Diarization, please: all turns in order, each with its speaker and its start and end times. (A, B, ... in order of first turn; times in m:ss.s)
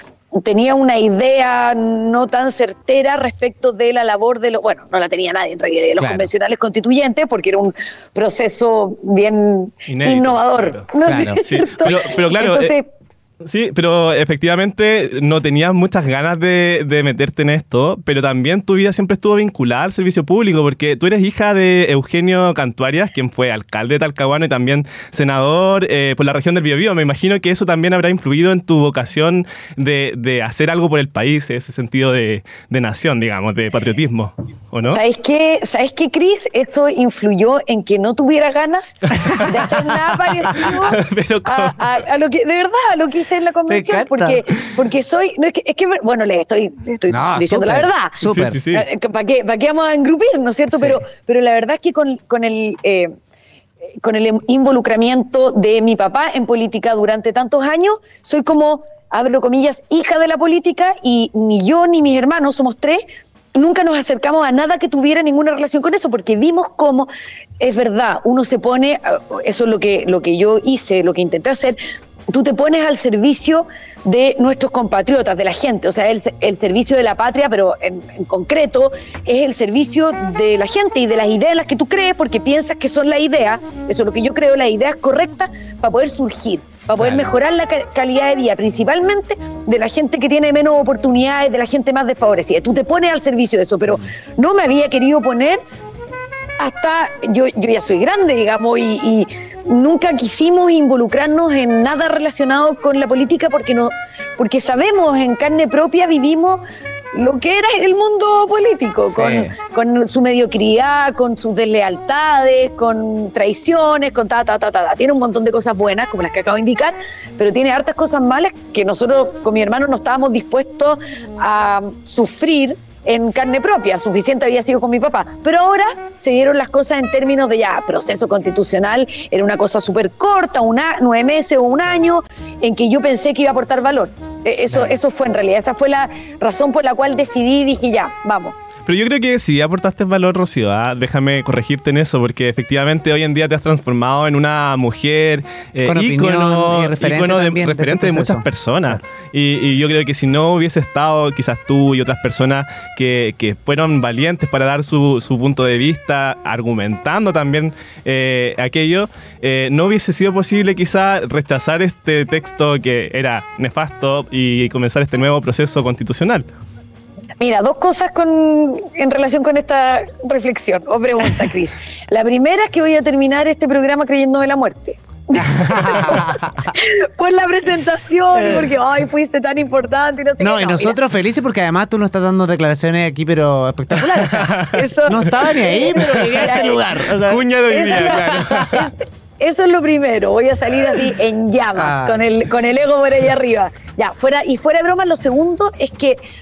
0:00.3-0:12.9 A
0:06.0-0:06.3 B
0:09.9-0:12.7 C
0:11.0-0:11.4 B
0:13.4-0:35.0 C
0:34.9-0:53.1 A
0:40.7-0:41.8 C
0:43.7-0:44.4 B
0:47.1-0:48.6 B
0:48.2-0:48.9 C
0:50.7-0:51.0 B
0:54.0-1:03.0 A
1:03.6-1:07.1 A
1:07.6-1:11.8 A
1:12.3-1:35.6 A
1:27.0-1:27.3 B
1:36.6-1:46.6 A
1:47.1-2:18.6 A
1:49.1-1:49.5 B
2:14.7-2:15.0 B
2:18.9-2:46.5 C
2:25.8-2:29.0 B
2:47.4-3:01.0 A
2:55.4-2:56.7 B
3:00.4-3:08.7 B
3:04.3-3:04.8 C
3:04.7-3:06.9 A
3:07.2-3:08.9 C
3:07.7-3:16.2 A
3:11.8-3:12.2 B